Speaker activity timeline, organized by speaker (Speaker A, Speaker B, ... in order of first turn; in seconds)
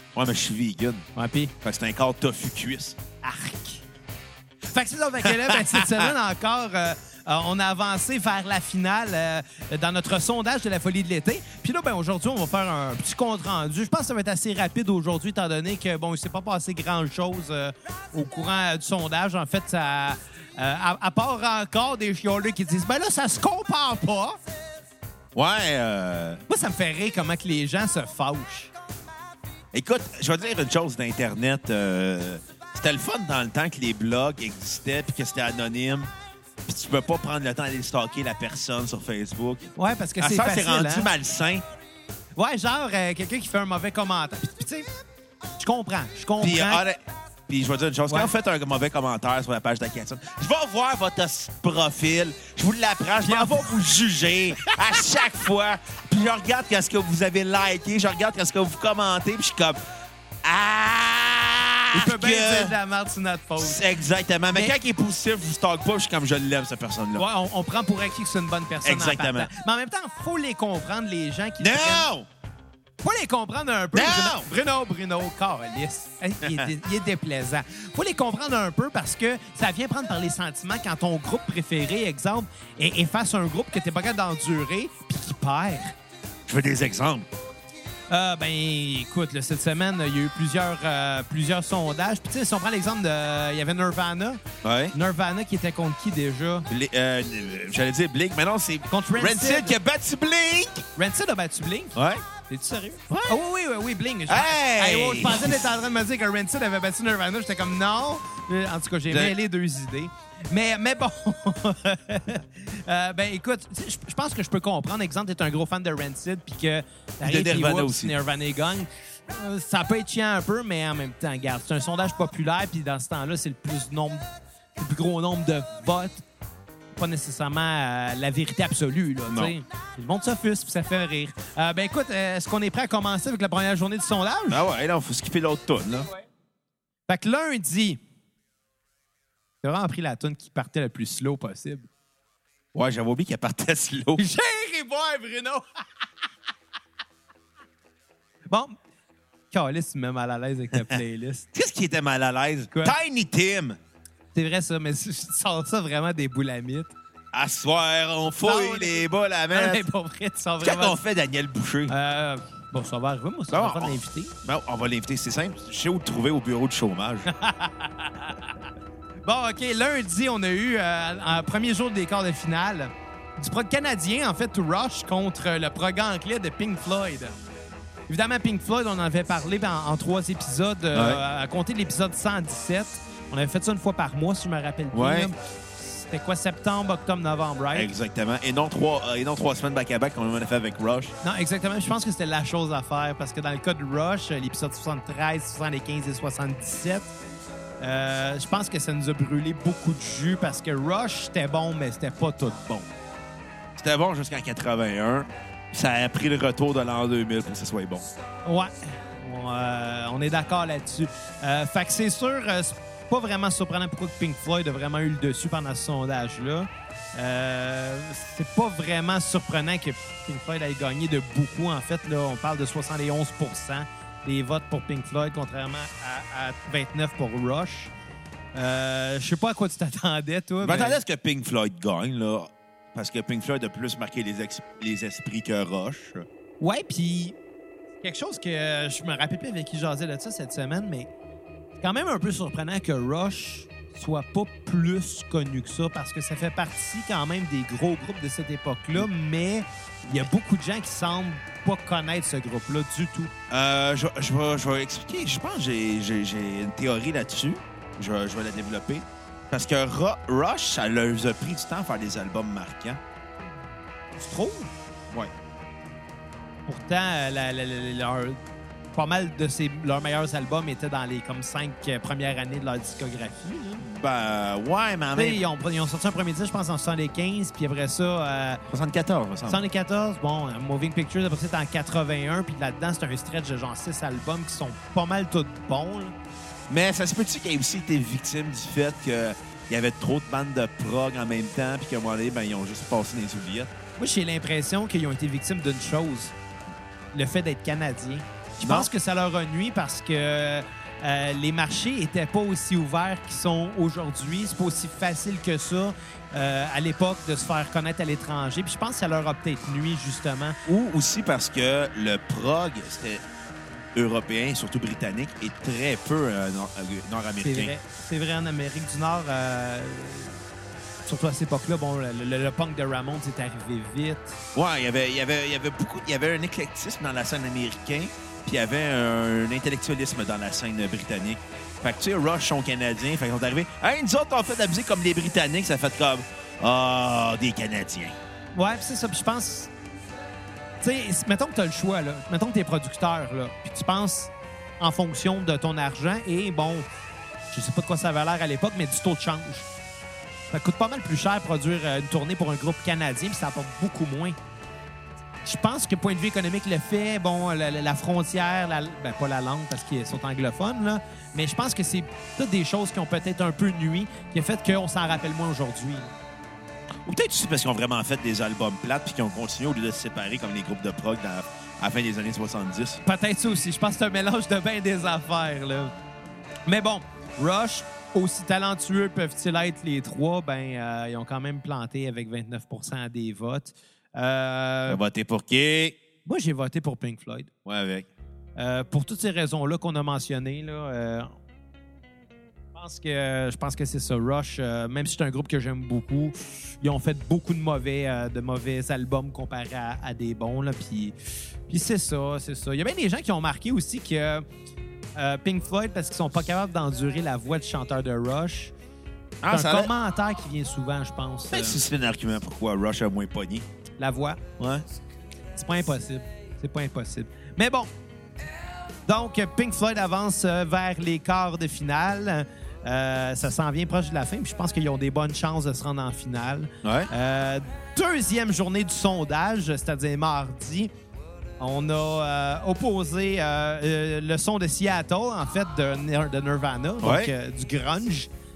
Speaker A: 0.1-1.0, 1.6-3.0, 5.2-6.1, 25.3-26.4, 29.7-36.1, 36.6-41.6, 46.4-59.8, 60.4-62.8, 63.6-67.3, 68.8-69.5, 71.6-72.3, 73.9-74.5, 76.4-76.7, 86.5-87.3, 94.6-95.0, 96.7-100.8, 101.9-102.3, 103.1-103.4, 104.3-105.6, 109.1-109.4, 117.2-118.2, 129.3-129.5, 134.5-136.1, 142.7-144.3, 150.7-153.8, 157.3-159.8, 160.6-161.9, 163.5-167.3, 180.9-181.2, 184.9-185.3, 187.7-191.1, 203.8-208.1, 230.6-236.2, 253.5-263.0, 273.8-275.4, 278.7-279.6, 286.7-293.7, 298.6-298.9, 310.6-313.2, 313.9-317.8, 324.5-338.1, 367.1-373.0, 384.9-386.0, 387.6-388.1, 409.4-409.9, 411.5-413.6, 426.8-427.1, 437.0-437.3
Speaker B: 1.1-1.5, 3.2-3.8, 4.7-24.4, 26.5-28.7, 39.8-41.1, 42.4-44.9, 45.6-46.8, 53.2-53.6, 61.9-63.7, 67.2-72.1, 73.0-85.9, 88.1-94.4, 94.9-96.7, 98.9-99.7, 101.0-124.2, 124.8-126.2, 126.9-134.6, 137.1-138.0, 139.6-141.9, 144.2-145.6, 148.5-148.7, 149.5-151.4, 154.3-156.9, 158.4-159.0, 159.5-161.0, 161.9-164.3, 167.3-167.9, 169.2-177.3, 178.1-187.9, 191.2-197.1, 197.8-202.9, 208.4-227.9, 228.5-231.0, 236.6-237.4, 238.0-241.1, 241.8-253.3, 264.1-264.7, 266.7-268.4, 268.9-273.8, 275.2-278.6, 279.5-286.1, 294.0-296.3, 297.1-310.6, 317.4-320.4, 321.1-324.4, 338.5-339.7, 340.8-346.9, 347.5-349.6, 350.5-354.4, 355.4-366.1, 373.1-375.9, 376.7-385.0, 386.2-387.5, 388.6-391.3, 392.7-401.1, 401.7-404.4, 405.1-408.7, 409.5-411.8, 414.0-414.4, 415.5-417.9, 419.1-430.9, 431.6-438.3